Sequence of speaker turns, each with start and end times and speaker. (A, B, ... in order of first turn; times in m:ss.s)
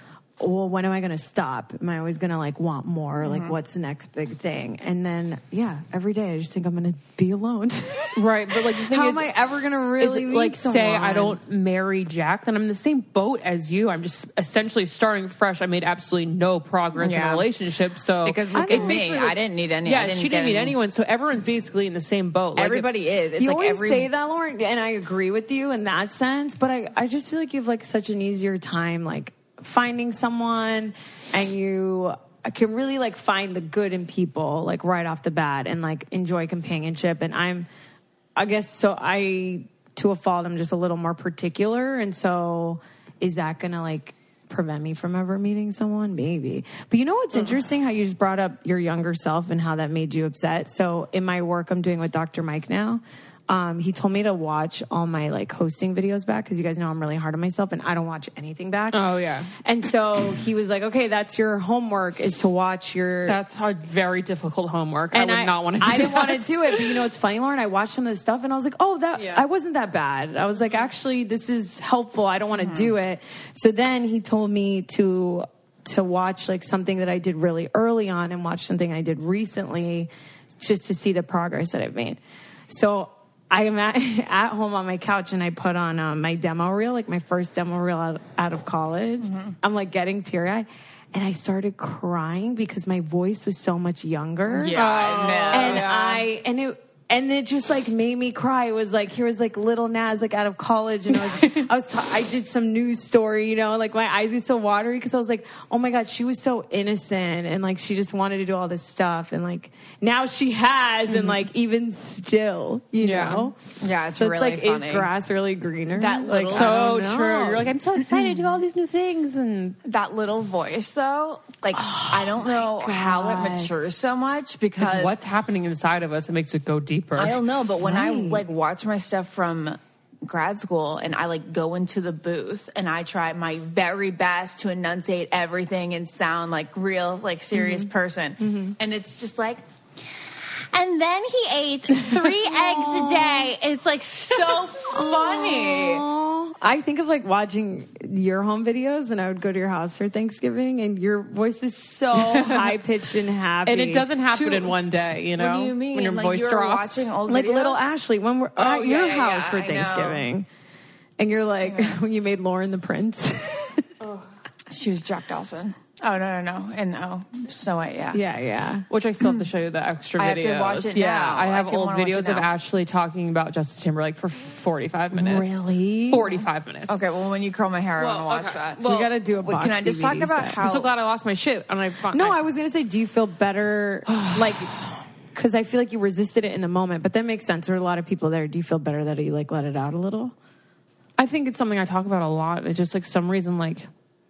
0:00.4-0:11.4 A
0:03.2-0:03.6 B
0:08.1-0:09.4 C
0:10.0-0:22.9 C
0:17.0-0:17.5 B
0:18.2-0:20.8 B
0:18.5-0:19.0 A
0:22.6-0:24.1 B
0:23.4-0:37.7 A
0:38.4-0:59.1 A
0:58.9-0:59.5 C
0:59.6-1:03.4 A
1:03.3-1:07.0 C
1:05.1-1:22.2 A
1:09.1-1:09.4 C
1:12.6-1:12.9 B
1:22.7-1:34.8 A
1:29.2-1:29.6 B
1:34.5-1:35.9 B
1:34.7-1:36.3 C
1:35.5-1:53.6 A
1:51.1-1:51.4 C
1:53.0-1:53.5 C
1:53.8-1:55.1 B
1:54.2-1:57.7 A
1:55.9-1:56.9 B
1:56.5-1:59.8 C
1:59.8-2:05.2 B
2:01.7-2:03.7 A
2:04.8-2:07.4 C
2:07.1-2:19.6 B
2:07.8-2:08.4 A
2:17.6-2:17.9 A
2:18.4-2:18.7 A
2:20.7-2:26.0 B
2:22.7-2:23.5 A
2:24.9-2:34.1 A
2:32.1-2:32.6 C
2:33.6-2:37.1 C
2:34.3-2:34.8 B
2:35.3-2:37.8 B
2:37.3-2:40.5 A
2:38.6-2:40.3 B
2:41.2-2:43.9 A
2:41.6-2:42.0 B
2:44.7-2:48.2 B
2:48.1-2:48.9 A
2:48.9-2:55.5 C
2:49.2-2:49.5 B
2:50.2-2:52.5 B
2:55.1-2:56.4 A
2:56.1-2:57.0 C
2:56.9-2:58.8 B
2:58.0-2:59.1 C
2:58.8-3:00.6 A
2:59.3-3:00.9 B
3:00.6-3:02.4 C
3:02.1-3:04.8 A
3:04.1-3:04.5 C
3:05.3-3:10.3 A
3:11.2-3:13.9 C